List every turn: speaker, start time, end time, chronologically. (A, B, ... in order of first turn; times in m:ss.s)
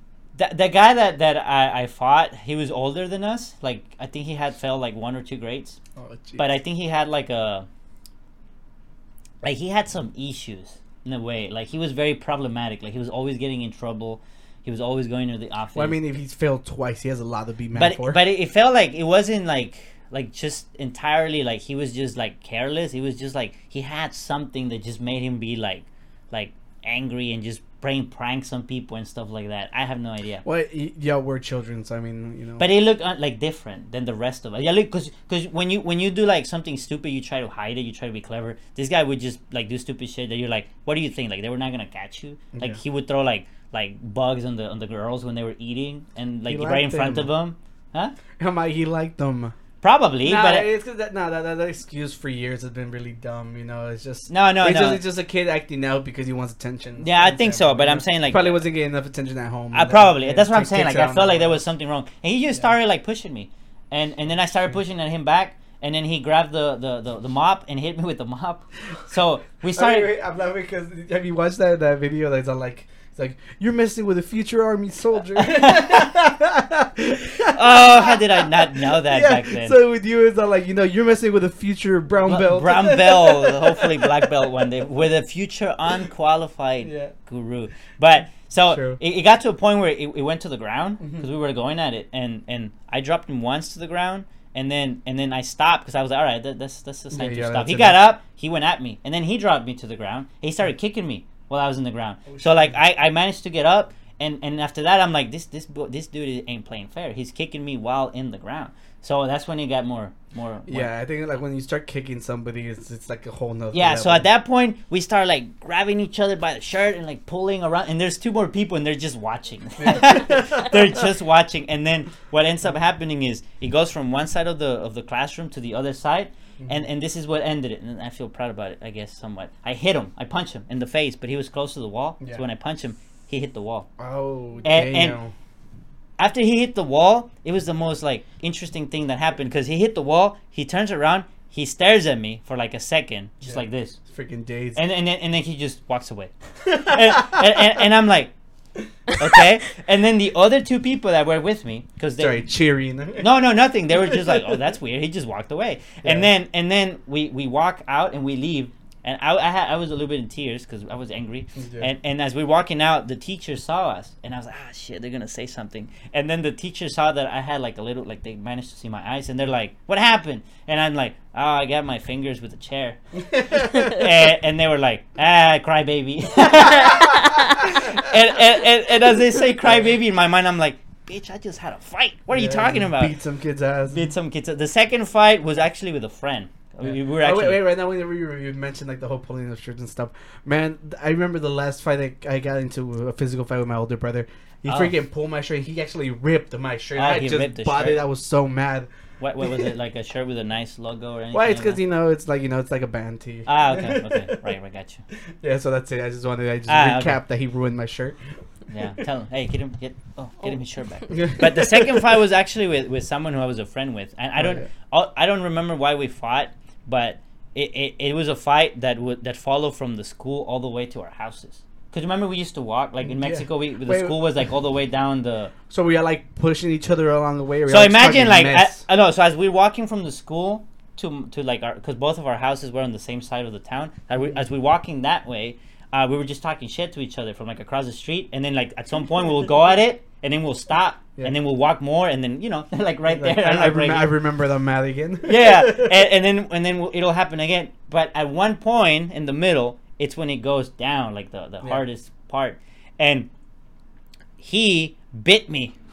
0:00.3-0:05.8 A
0:06.0-0:06.5 B
0:06.4-0:07.7 A
0:09.4-0:16.0 A
0:15.7-0:18.2 B
0:17.7-0:30.4 A
0:30.4-0:32.7 B
0:32.6-0:48.2 A
0:42.5-0:42.8 B
0:46.5-0:47.3 B
0:48.4-0:49.5 B
0:49.8-0:50.7 A
0:50.2-1:01.6 B
0:54.3-0:55.0 A
0:57.0-0:58.6 A
0:59.7-1:10.1 A
1:09.7-1:24.2 B
1:15.3-1:16.2 A
1:17.4-1:19.8 A
1:22.2-1:50.9 A
1:26.8-1:27.1 B
1:28.7-1:29.0 B
1:31.0-1:31.3 B
1:37.1-1:38.0 B
1:42.3-1:42.8 B
1:50.7-1:54.3 B
1:53.7-2:13.9 A
1:59.8-2:00.7 B
2:06.6-2:06.8 B
2:14.0-2:15.3 B
2:14.6-2:15.2 A
2:16.2-2:24.0 A
2:23.4-2:24.8 B
2:24.7-2:28.3 A
2:26.7-2:27.6 B
2:29.2-2:32.4 A
2:32.2-2:33.3 B
2:33.2-3:03.2 A
2:36.0-2:36.3 B
2:41.6-2:41.9 B
2:53.2-2:53.9 B
2:56.8-2:57.3 B
3:02.3-3:04.1 B
3:03.9-3:07.7 A
3:06.8-3:18.9 B
3:14.6-3:15.0 A
3:16.9-3:18.0 A
3:19.2-3:21.8 A
3:21.3-3:24.4 B
3:23.4-3:25.0 A
3:25.4-3:28.2 B
3:26.7-3:27.2 A
3:28.7-3:45.5 A
3:31.1-3:32.1 B
3:34.4-3:34.7 B
3:43.0-3:44.2 B
3:45.7-3:48.8 B
3:47.7-4:04.2 A
4:03.1-4:06.0 B
4:05.2-4:13.3 A
4:14.4-4:15.7 A